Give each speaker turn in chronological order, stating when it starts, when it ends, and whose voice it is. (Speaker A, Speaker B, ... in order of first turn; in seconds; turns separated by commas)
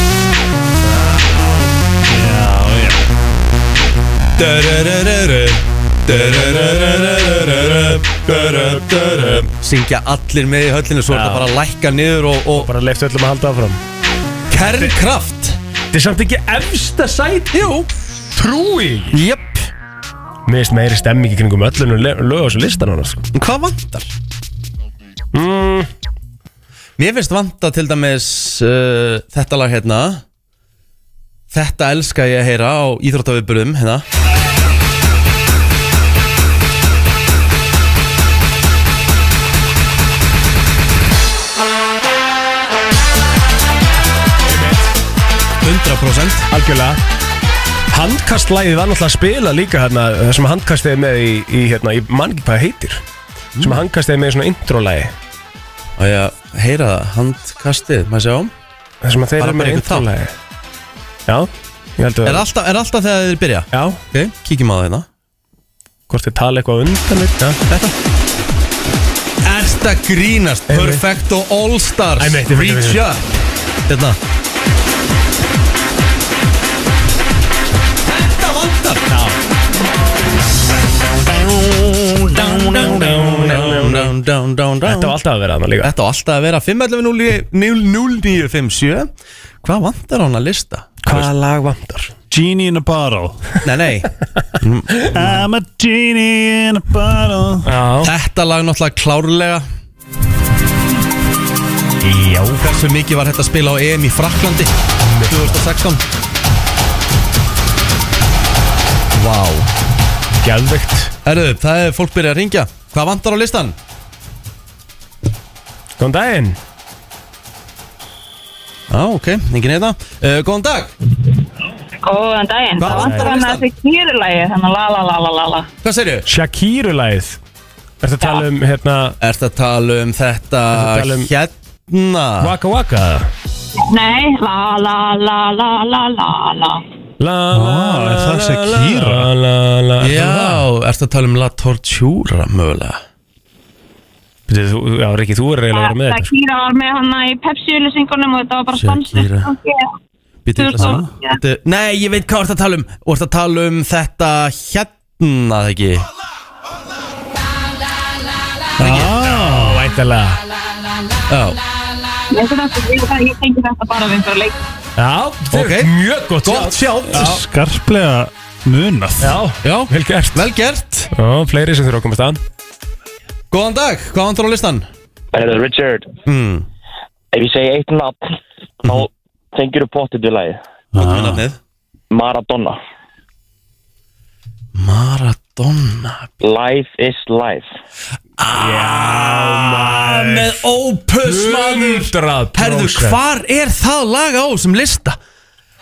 Speaker A: 2.0-3.0, Speaker B: 4.4-12.7, Speaker C: 11.1-11.5, Speaker C: 12.6-13.8, Speaker B: 14.5-15.6, Speaker C: 15.9-17.6, Speaker B: 17.5-17.9, Speaker C: 18.3-19.2, Speaker B: 19.1-19.7, Speaker C: 20.5-23.3, Speaker B: 23.3-24.1, Speaker C: 25.3-25.9, Speaker B: 27.0-30.2, Speaker B: 31.5-34.0, Speaker C: 44.5-44.9, Speaker B: 45.6-46.5, Speaker C: 46.5-47.0, Speaker C: 47.9-53.0, Speaker B: 53.6-53.8, Speaker C: 53.6-55.1, Speaker B: 56.0-58.5, Speaker C: 59.0-60.3, Speaker B: 59.4-60.1, Speaker C: 61.3-62.5, Speaker B: 62.2-65.1, Speaker C: 63.7-64.0, Speaker C: 66.1-67.6, Speaker B: 67.7-67.9, Speaker B: 69.4-73.3, Speaker C: 70.7-71.0, Speaker C: 72.2-73.0, Speaker B: 73.9-74.2, Speaker B: 78.0-79.1, Speaker C: 79.1-79.4, Speaker B: 81.9-85.2, Speaker C: 82.4-84.2, Speaker C: 84.8-85.9, Speaker B: 85.8-89.1, Speaker B: 89.6-91.2, Speaker C: 91.0-92.1, Speaker A: 92.3-93.5, Speaker B: 93.6-95.1, Speaker A: 95.1-97.7, Speaker C: 97.7-98.1, Speaker B: 98.0-99.7, Speaker C: 102.0-102.6, Speaker B: 102.6-104.8, Speaker C: 105.0-105.7, Speaker B: 105.3-106.0, Speaker B: 109.1-109.7, Speaker C: 110.4-111.1, Speaker B: 111.2-113.8, Speaker C: 116.0-116.6, Speaker B: 118.9-120.9, Speaker D: 122.0-125.7, Speaker B: 122.8-123.7, Speaker C: 122.8-123.3, Speaker B: 125.8-126.3, Speaker C: 126.3-127.4, Speaker C: 128.0-129.2, Speaker B: 129.2-132.6, Speaker C: 130.7-131.3, Speaker C: 132.4-133.3, Speaker D: 133.9-136.8, Speaker C: 137.2-140.7, Speaker A: 137.5-139.3, Speaker B: 140.0-143.0, Speaker C: 144.5-146.3, Speaker D: 145.7-149.9, Speaker B: 148.7-149.5, Speaker B: 150.4-156.1, Speaker D: 150.6-151.4, Speaker A: 150.8-151.1, Speaker A: 158.8-159.9, Speaker B: 158.8-159.1, Speaker C: 158.9-160.4, Speaker B: 161.3-161.6, Speaker D: 162.3-164.6, Speaker C: 165.0-167.4, Speaker B: 165.5-165.9, Speaker B: 166.4-167.4, Speaker A: 167.1-169.4, Speaker C: 169.2-170.4, Speaker B: 169.6-171.1, Speaker C: 171.1-172.4, Speaker B: 173.5-174.9, Speaker E: 175.3-176.1, Speaker B: 176.2-176.7, Speaker E: 177.3-178.3, Speaker E: 178.8-180.6, Speaker A: 180.9-181.4, Speaker B: 181.0-181.6, Speaker E: 182.1-182.8, Speaker B: 184.8-186.3, Speaker E: 186.4-187.7, Speaker B: 188.4-195.2, Speaker C: 188.6-190.7, Speaker C: 191.2-193.2